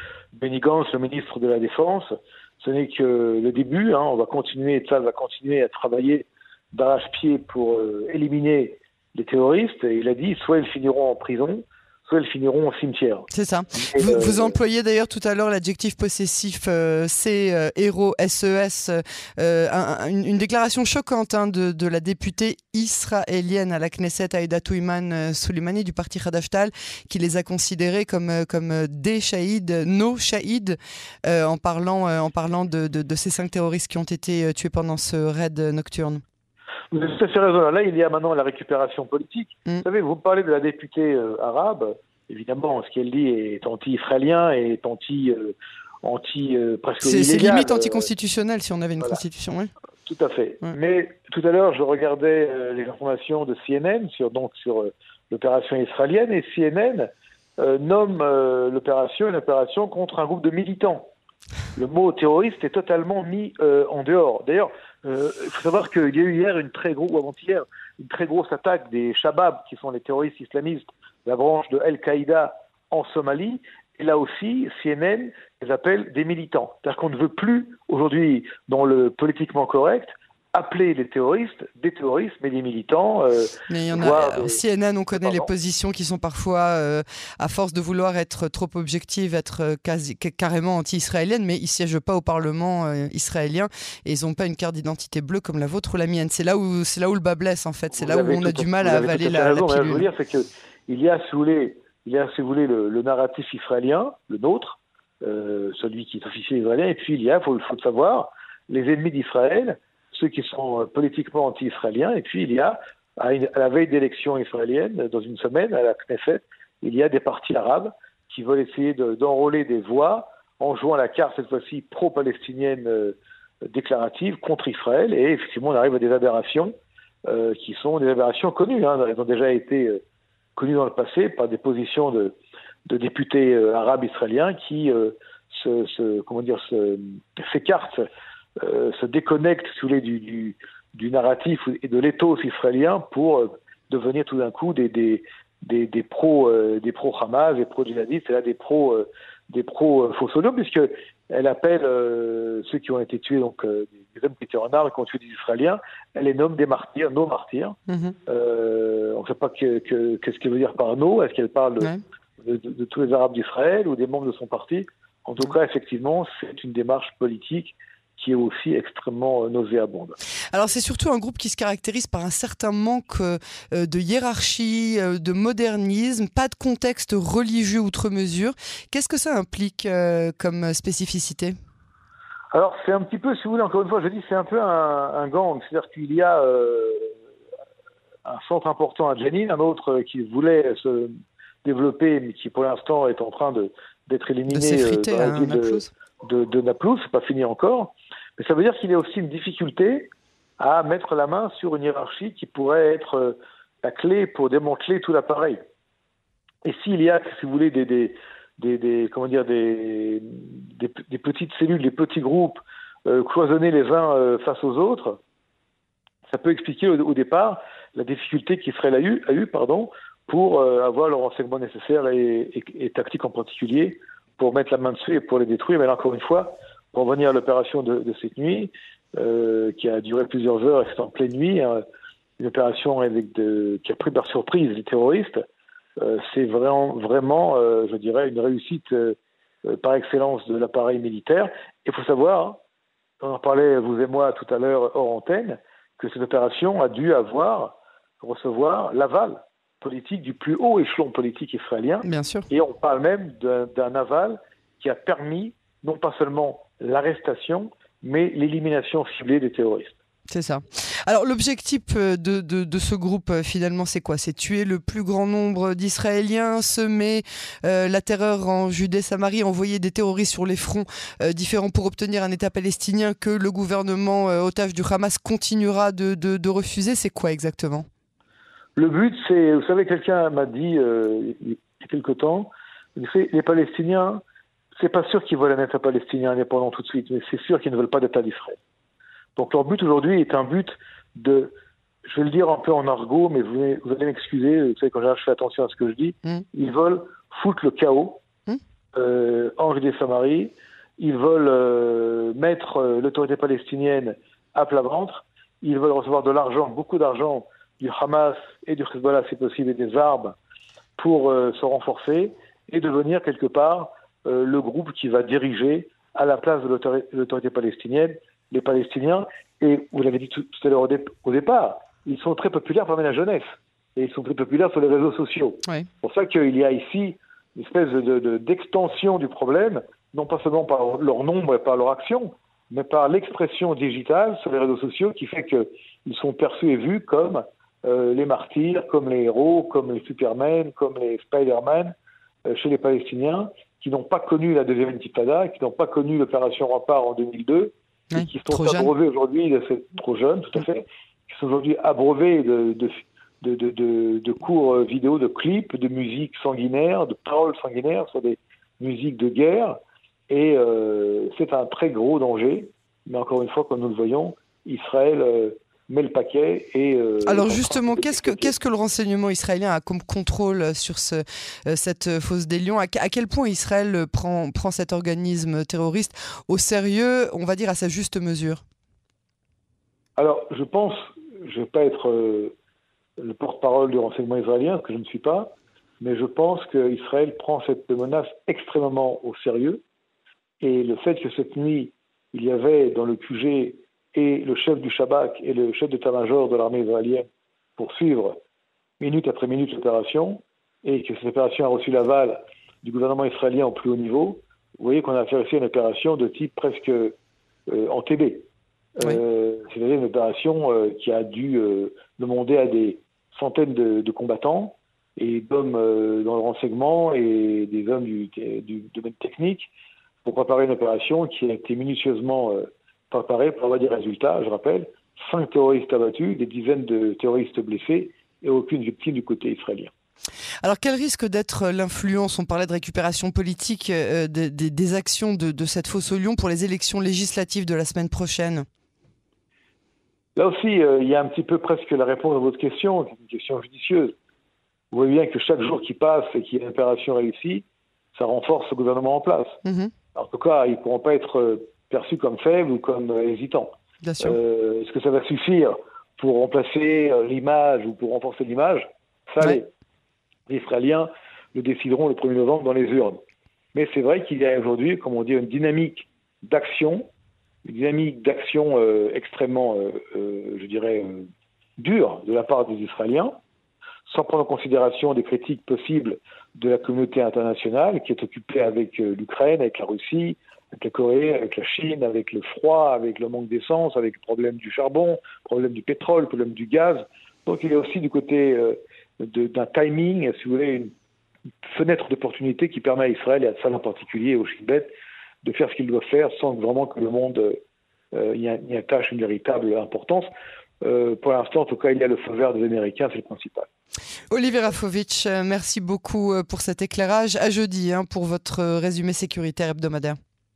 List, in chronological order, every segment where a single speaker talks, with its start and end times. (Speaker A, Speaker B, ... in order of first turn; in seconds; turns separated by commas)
Speaker A: 0.3-2.1, Speaker A: 2.6-14.6, Speaker B: 13.3-36.2, Speaker A: 36.9-48.1, Speaker B: 47.0-49.7, Speaker A: 50.1-61.1, Speaker A: 61.8-84.6, Speaker B: 83.7-100.1, Speaker A: 85.2-85.5, Speaker A: 98.0-126.7, Speaker A: 127.3-130.0, Speaker A: 130.6-132.4, Speaker A: 132.9-138.1, Speaker A: 138.6-157.8, Speaker B: 157.9-158.2, Speaker A: 158.3-170.2, Speaker B: 170.5-181.6, Speaker A: 182.5-187.1, Speaker A: 188.3-191.1, Speaker A: 191.6-205.6, Speaker B: 194.5-195.9, Speaker A: 206.6-215.2, Speaker A: 216.3-231.8, Speaker A: 232.4-235.4, Speaker A: 236.0-242.6, Speaker A: 243.2-260.0, Speaker B: 252.0-252.5, Speaker B: 260.3-277.9, Speaker A: 278.8-284.2, Speaker A: 284.8-288.6, Speaker A: 289.4-291.5, Speaker A: 292.1-298.2, Speaker A: 298.9-310.4, Speaker A: 311.0-341.9, Speaker A: 342.5-359.8, Speaker B: 348.1-348.9, Speaker A: 360.3-368.5, Speaker B: 367.2-378.6, Speaker A: 380.2-382.5, Speaker A: 383.2-389.8, Speaker A: 390.6-397.3, Speaker A: 397.8-398.4, Speaker A: 399.0-407.1, Speaker A: 407.7-408.5, Speaker A: 409.0-419.7, Speaker A: 420.2-429.9, Speaker B: 430.6-438.7, Speaker A: 440.4-444.1, Speaker A: 444.9-449.6, Speaker B: 449.6-449.9, Speaker A: 450.1-459.7, Speaker B: 454.0-454.4, Speaker A: 460.5-463.2, Speaker A: 463.7-467.1, Speaker A: 467.6-471.3, Speaker A: 471.8-473.4, Speaker A: 474.1-490.9, Speaker A: 491.7-494.9, Speaker A: 495.4-497.6, Speaker A: 498.1-500.3, Speaker A: 500.8-503.7, Speaker B: 504.3-510.2